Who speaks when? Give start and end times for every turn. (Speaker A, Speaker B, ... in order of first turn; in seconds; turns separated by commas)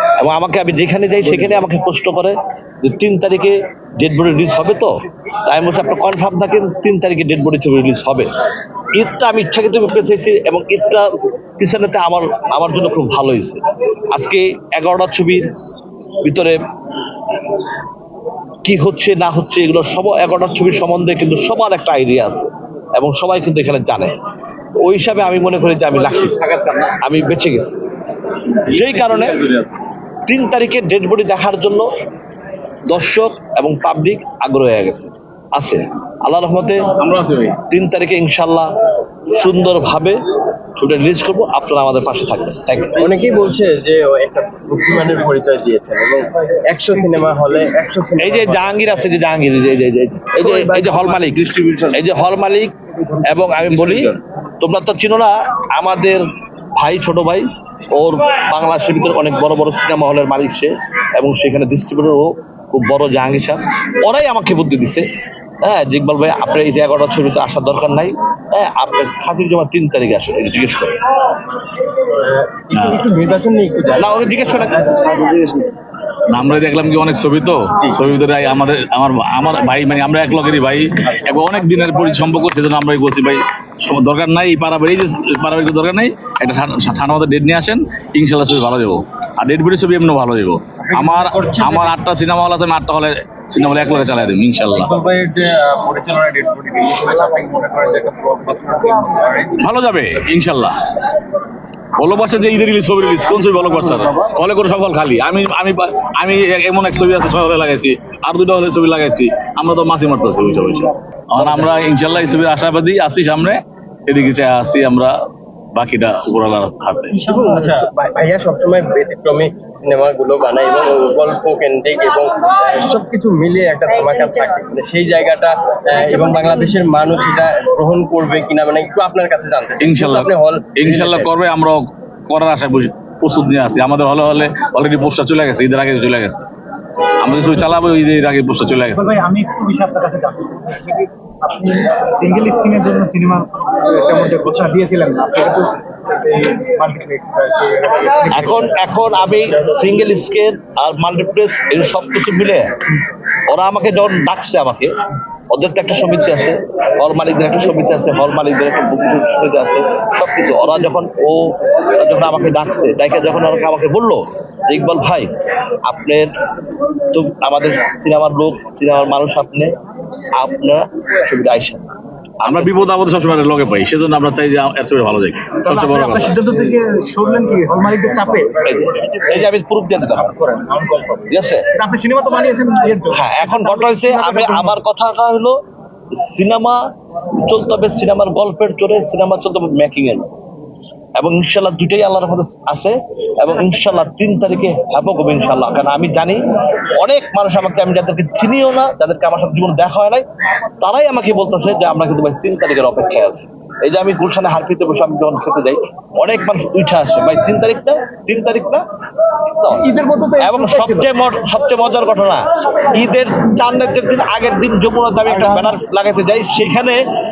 Speaker A: 0.2-4.9, Speaker A: 5.5-8.3, Speaker A: 8.9-11.1, Speaker A: 11.6-15.5, Speaker A: 16.2-16.6, Speaker A: 18.6-24.1, Speaker A: 24.8-26.4, Speaker B: 25.9-27.0, Speaker A: 27.0-27.8, Speaker B: 28.7-29.7, Speaker A: 28.7-29.4, Speaker A: 30.3-31.9, Speaker A: 32.9-36.8, Speaker B: 37.0-37.6, Speaker A: 37.7-38.7, Speaker A: 39.3-40.2, Speaker A: 40.8-43.0, Speaker C: 43.0-49.1, Speaker A: 48.2-52.7, Speaker A: 53.3-56.2, Speaker B: 53.7-54.1, Speaker A: 56.8-65.0, Speaker A: 65.6-71.0, Speaker C: 72.0-75.7, Speaker B: 72.7-73.0, Speaker A: 74.0-74.9, Speaker B: 76.3-94.9, Speaker C: 90.8-91.9, Speaker C: 94.8-99.6, Speaker B: 99.6-100.8, Speaker B: 102.0-115.1, Speaker C: 103.6-104.1, Speaker B: 115.8-117.2, Speaker D: 117.1-117.9, Speaker C: 117.2-131.3, Speaker B: 129.8-136.5, Speaker B: 137.2-139.2, Speaker D: 138.9-148.9, Speaker A: 148.3-152.7, Speaker A: 153.5-154.9, Speaker A: 155.5-165.3, Speaker A: 165.9-166.3, Speaker A: 167.1-169.7, Speaker A: 170.4-171.8, Speaker A: 172.4-172.9, Speaker B: 172.4-176.4, Speaker D: 175.7-179.2, Speaker A: 178.7-180.4, Speaker D: 180.2-184.8, Speaker A: 181.3-181.7, Speaker A: 183.1-185.6, Speaker A: 186.2-186.8, Speaker A: 187.4-190.3, Speaker A: 191.2-196.4, Speaker A: 197.0-200.2, Speaker A: 200.8-208.8, Speaker A: 209.5-217.0, Speaker D: 209.7-211.1, Speaker D: 215.5-215.8